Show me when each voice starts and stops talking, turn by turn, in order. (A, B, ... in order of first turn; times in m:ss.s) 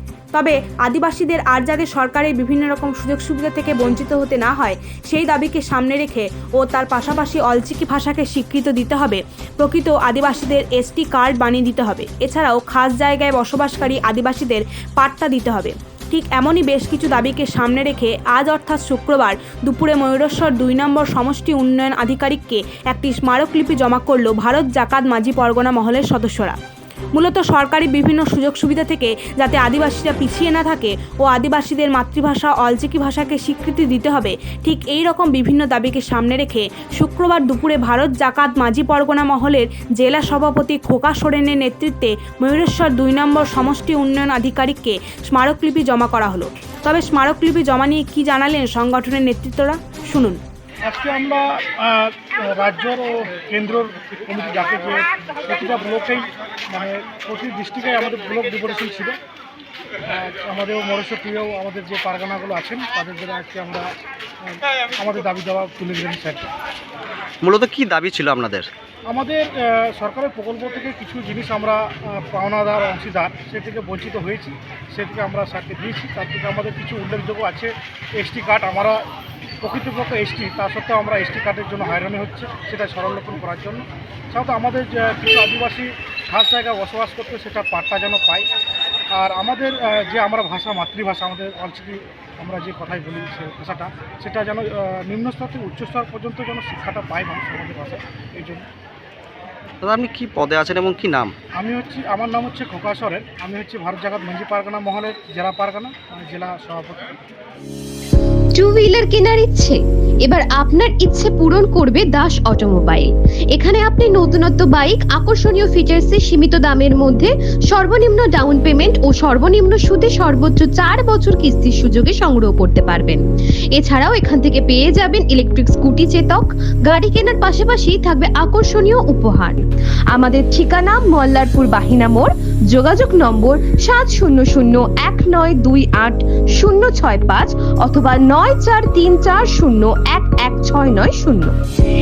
0:00.3-0:26.6 A
0:27.1-0:50.4 A
0:50.9-0:59.2 B
1:00.1-1:03.9 B
1:04.4-1:06.5 B
1:07.4-1:08.7 C
1:09.1-1:19.0 B
1:19.6-1:28.5 B
1:29.2-1:38.7 B
1:39.8-1:41.3 C
1:41.6-1:47.2 B
1:48.6-2:03.2 D
2:03.8-2:21.6 D